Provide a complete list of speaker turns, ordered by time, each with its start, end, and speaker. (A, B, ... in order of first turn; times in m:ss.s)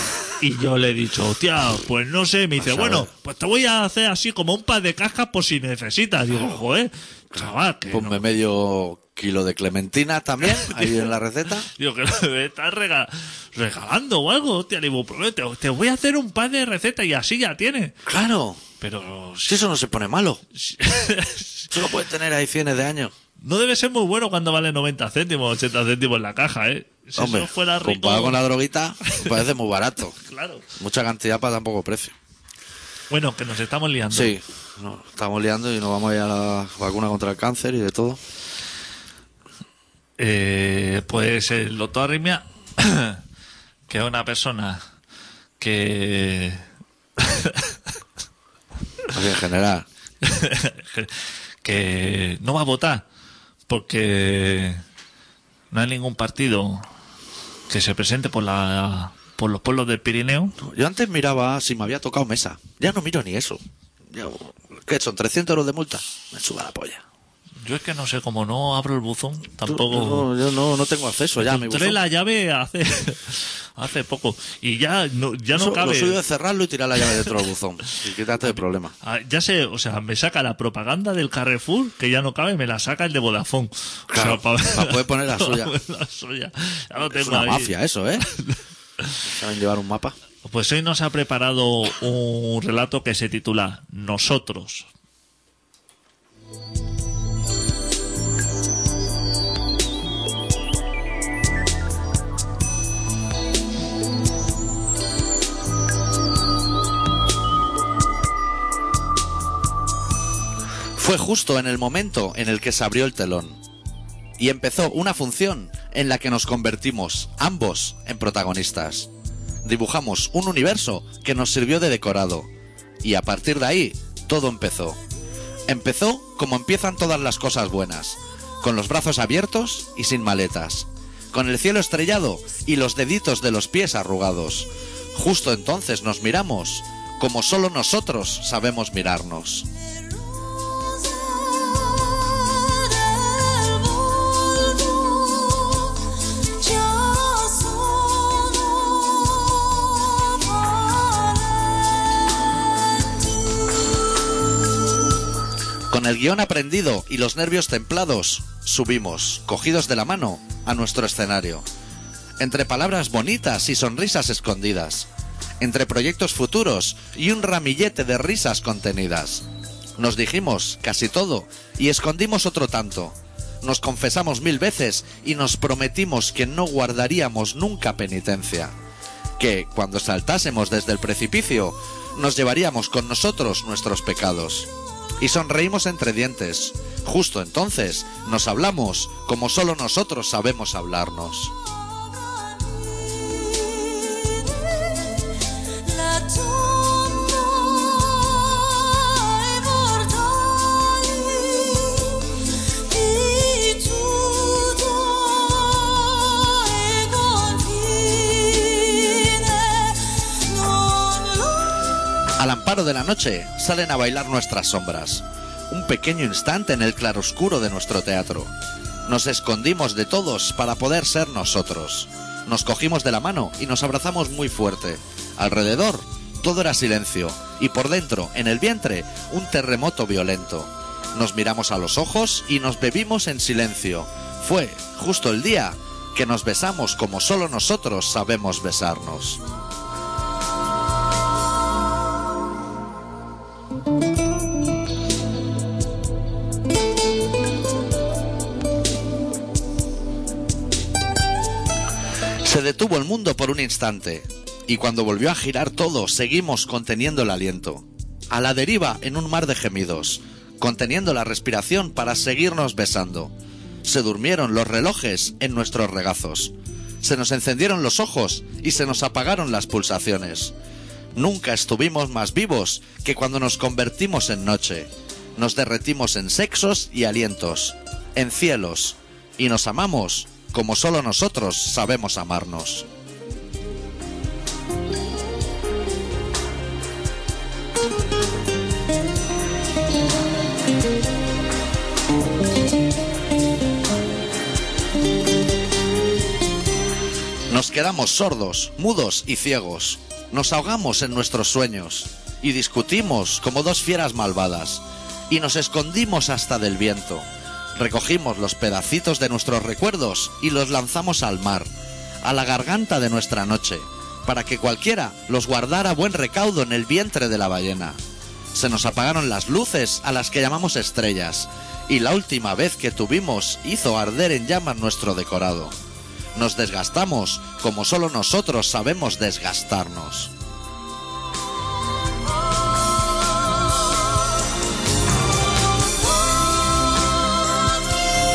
0:00.4-0:08.3 A
0:02.6-0:03.1 B
0:07.9-0:11.7 B
0:10.6-0:11.1 A
0:11.7-0:18.0 A
0:18.0-0:18.6 B
0:18.8-0:19.6 A
0:19.5-0:20.4 B
0:20.5-0:21.7 A
0:21.7-0:23.1 B
0:23.4-0:28.4 A
0:27.2-0:30.1 B
0:29.1-0:29.3 A
0:30.2-0:30.6 A
0:30.8-0:32.1 B
0:33.1-0:34.3 A
0:34.1-0:38.2 B
0:40.2-0:43.2 A
0:43.9-0:44.8 A
0:45.6-0:46.6 A
0:47.2-0:47.7 A
0:49.1-0:49.8 B
0:50.2-0:53.0 A
0:53.7-0:54.8 A
0:55.7-0:56.9 A
0:57.7-1:00.5 A
1:00.6-1:03.6 B
1:04.1-1:07.0 B
1:07.6-1:10.3 A
1:09.6-1:12.0 B
1:11.4-1:16.2 A
1:15.5-1:18.9 B
1:18.4-1:29.2 A
1:24.1-1:25.7 B
1:27.1-1:28.2 B
1:29.2-1:30.1 B
1:30.4-1:34.9 A
1:51.0-1:53.6 B
1:54.4-1:59.1 B
1:59.6-2:02.5 B
2:03.0-2:05.0 B
2:05.7-2:19.7 B
2:35.9-2:41.6 B
2:42.4-2:45.1 B
2:45.6-2:49.4 B
2:50.0-2:58.7 B
2:59.4-3:11.5 B
3:16.1-3:17.2 C
3:23.2-3:26.4 C
3:27.1-3:29.9 C
3:32.4-3:38.5 B
3:39.1-3:59.4 B
4:12.4-4:23.3 B
4:23.8-4:30.5 B
4:31.1-4:42.9 B
4:57.5-5:11.7 B
5:12.2-5:18.0 B
5:18.5-5:25.8 B
5:26.3-5:30.3 B